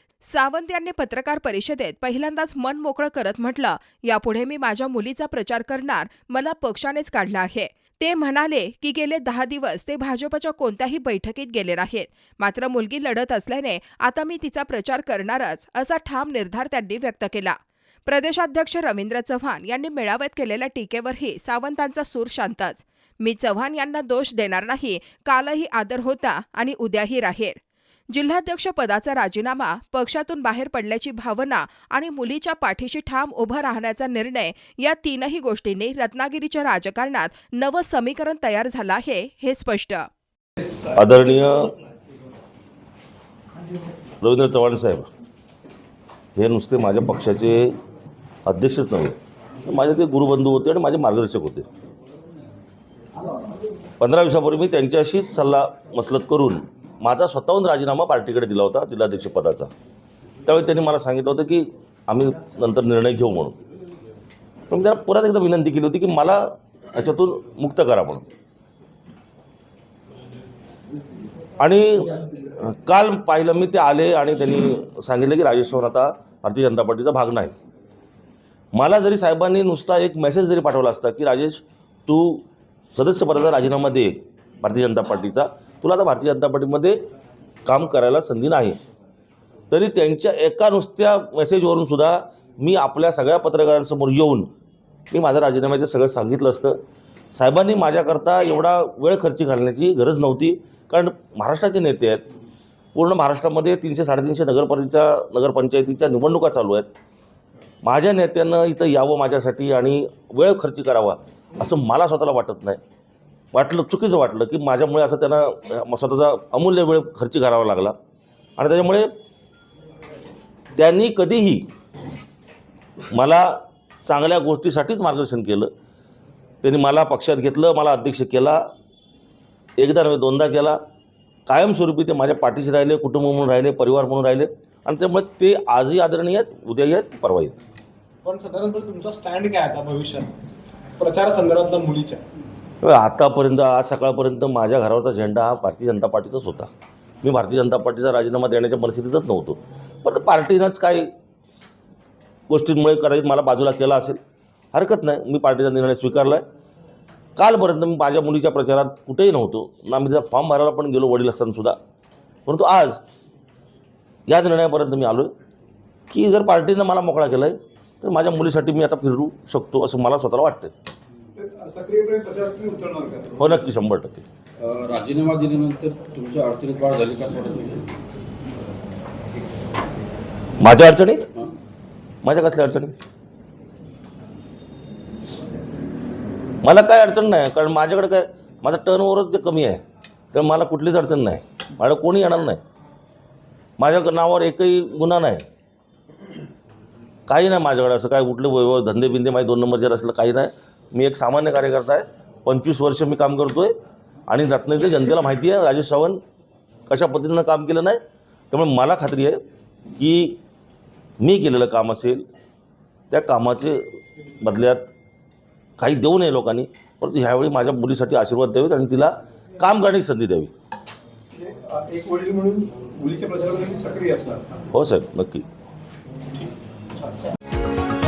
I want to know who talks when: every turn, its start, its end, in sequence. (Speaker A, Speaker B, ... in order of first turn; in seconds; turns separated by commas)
Speaker A: 0.2-27.6, Speaker A: 28.1-40.1, Speaker B: 41.0-41.7, Speaker B: 44.2-45.1, Speaker B: 46.4-47.7, Speaker B: 48.5-49.1, Speaker B: 49.7-51.7, Speaker B: 54.0-59.7, Speaker B: 60.5-63.6, Speaker B: 64.7-68.3, Speaker B: 71.6-77.5, Speaker B: 78.7-87.0, Speaker B: 87.7-88.8, Speaker B: 89.7-94.5, Speaker B: 95.1-96.8, Speaker B: 97.3-102.2, Speaker B: 103.0-106.9, Speaker B: 107.8-112.8, Speaker B: 113.5-118.0, Speaker B: 118.6-119.1, Speaker B: 120.8-121.7, Speaker B: 123.1-125.7, Speaker B: 126.6-128.6, Speaker B: 129.8-130.8, Speaker B: 131.5-137.6, Speaker C: 138.2-140.3, Speaker C: 141.0-142.2, Speaker B: 142.8-146.7, Speaker B: 147.2-151.1, Speaker B: 152.5-154.2, Speaker B: 154.7-156.4, Speaker B: 157.4-161.8, Speaker B: 162.5-163.0, Speaker B: 164.3-165.3, Speaker B: 166.1-170.7, Speaker C: 171.3-173.5, Speaker B: 173.4-174.2, Speaker D: 174.6-177.9, Speaker B: 180.6-181.3, Speaker B: 182.2-182.9, Speaker B: 186.6-189.8, Speaker B: 190.3-192.6, Speaker B: 193.8-195.4, Speaker B: 197.3-203.7, Speaker B: 204.3-206.2, Speaker B: 206.9-208.0, Speaker B: 208.5-209.4, Speaker B: 210.0-210.4, Speaker B: 211.2-212.2, Speaker B: 213.1-214.9, Speaker B: 215.8-220.5, Speaker C: 221.4-224.6, Speaker B: 224.7-225.5